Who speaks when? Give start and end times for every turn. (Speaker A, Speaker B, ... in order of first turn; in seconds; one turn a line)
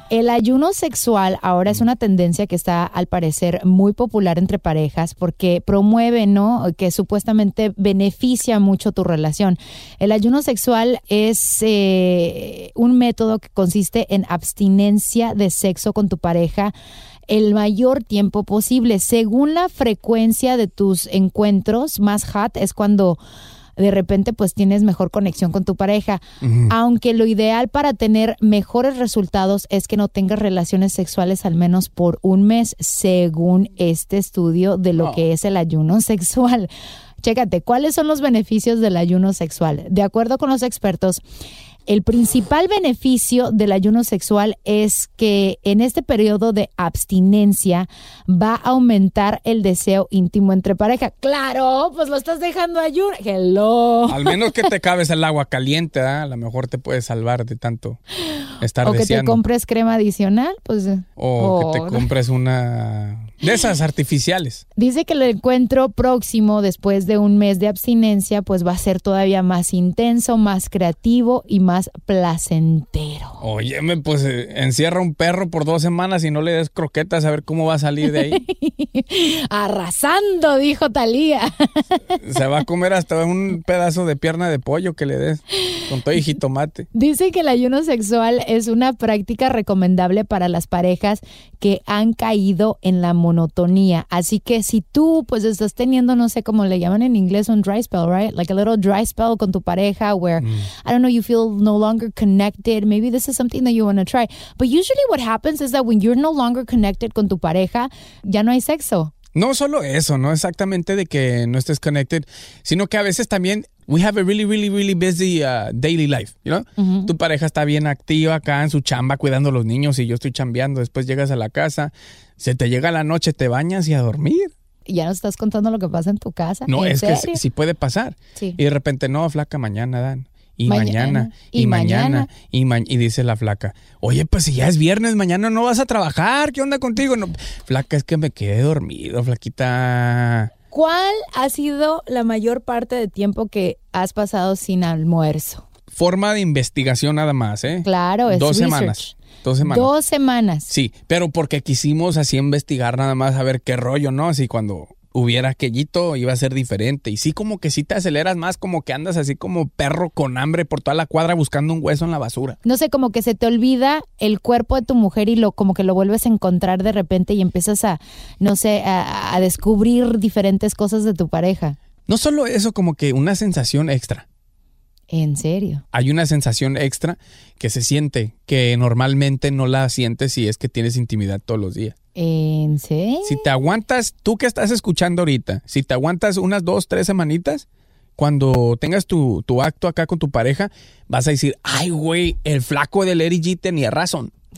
Speaker A: 0.1-16.7
Speaker A: 17.3-23.2
Speaker A: 23.8-36.7
Speaker B: 26.4-26.7
Speaker A: 37.2-41.2
Speaker A: 41.9-54.4
Speaker B: 54.1-58.0
Speaker B: 58.6-59.4
Speaker A: 58.8-62.1
Speaker B: 61.2-64.6
Speaker A: 64.8-73.4
Speaker B: 73.4-78.4
Speaker A: 78.1-82.0
Speaker B: 82.2-86.9
Speaker A: 86.9-109.1
Speaker B: 100.4-100.7
Speaker B: 109.3-124.5
Speaker A: 116.8-117.1
Speaker A: 124.9-127.4
Speaker B: 126.7-140.5
Speaker A: 130.7-132.3
Speaker A: 140.7-145.7
Speaker B: 145.9-149.9
Speaker A: 147.8-150.7
Speaker B: 150.7-162.6
Speaker A: 162.7-171.8
Speaker B: 172.1-174.2
Speaker A: 175.1-175.8
Speaker B: 175.9-181.9
Speaker A: 182.2-183.4
Speaker B: 183.2-187.7
Speaker B: 188.2-194.3